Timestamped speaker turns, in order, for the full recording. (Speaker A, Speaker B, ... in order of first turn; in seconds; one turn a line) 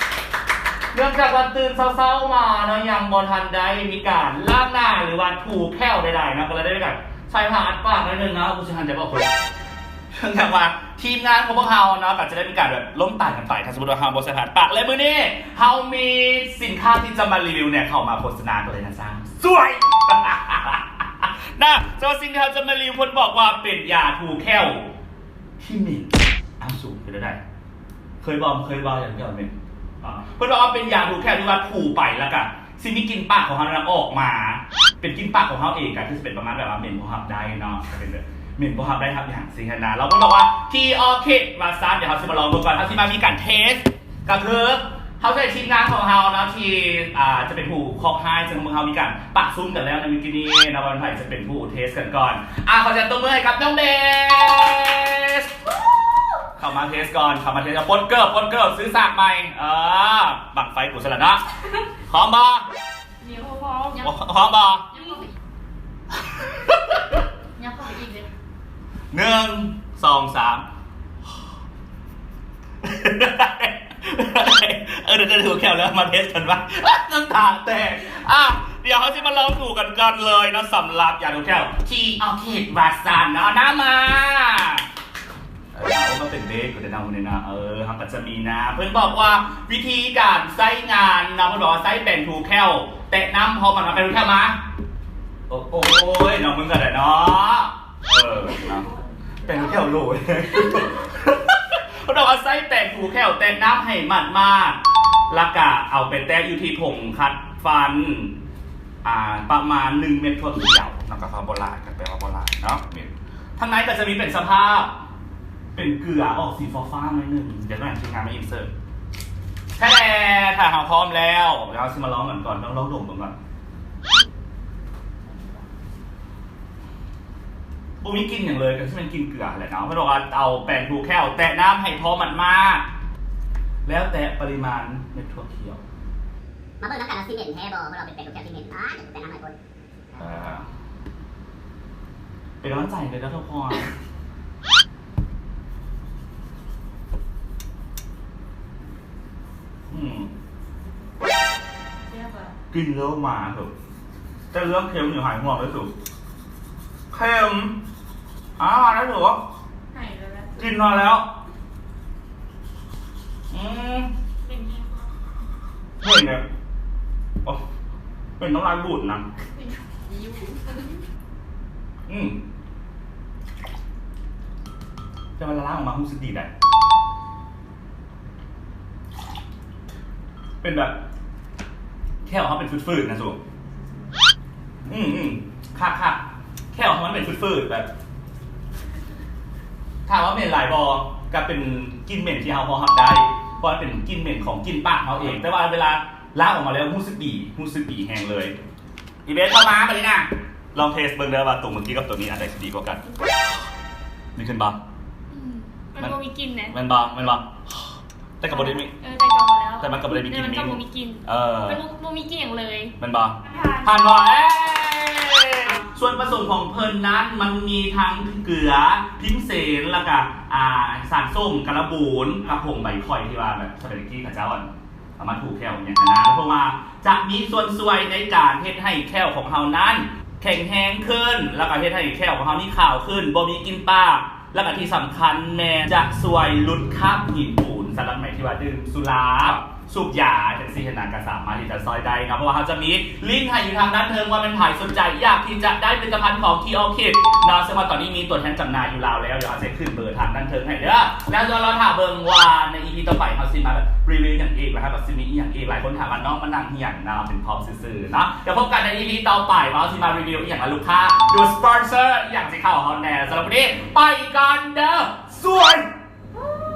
Speaker A: 0.9-9.3
Speaker A: 10.1-24.9
Speaker A: 25.6-27.4
Speaker A: 28.2-55.5
Speaker A: 56.5-61.4
Speaker A: 62.1-62.7
Speaker B: 63.2-64.0
Speaker A: 64.0-64.9
Speaker A: 66.3-67.0
Speaker B: 67.6-68.1
Speaker A: 69.1-70.6
Speaker A: 72.8-84.8
Speaker A: 85.7-94.6
Speaker A: 95.5-98.9
Speaker A: 99.4-108.3
Speaker A: 109.0-114.9
Speaker A: 115.7-118.7
Speaker A: 119.8-123.3
Speaker A: 128.0-132.8
Speaker A: 133.8-135.8
Speaker C: 136.8-139.5
Speaker A: 140.1-140.7
Speaker A: 142.6-143.9
Speaker A: 149.9-150.3
Speaker A: 152.7-153.7
Speaker A: 154.5-155.9
Speaker A: 157.1-157.8
Speaker A: 158.6-159.4
Speaker A: 160.6-161.2
Speaker A: 163.5-164.1
Speaker B: 164.4-164.9
Speaker A: 166.0-166.4
Speaker A: 168.4-169.2
Speaker A: 172.1-172.4
Speaker A: 175.4-176.5
Speaker A: 180.6-181.0
Speaker A: 182.2-183.4
Speaker A: 184.8-186.2
Speaker A: 186.7-187.9
Speaker A: 190.1-198.6
Speaker A: 199.2-203.0
Speaker A: 204.3-204.8
Speaker B: 205.3-206.7
Speaker A: 206.7-207.5
Speaker A: 208.4-208.9
Speaker B: 208.5-212.9
Speaker A: 209.8-211.8
Speaker A: 213.0-265.9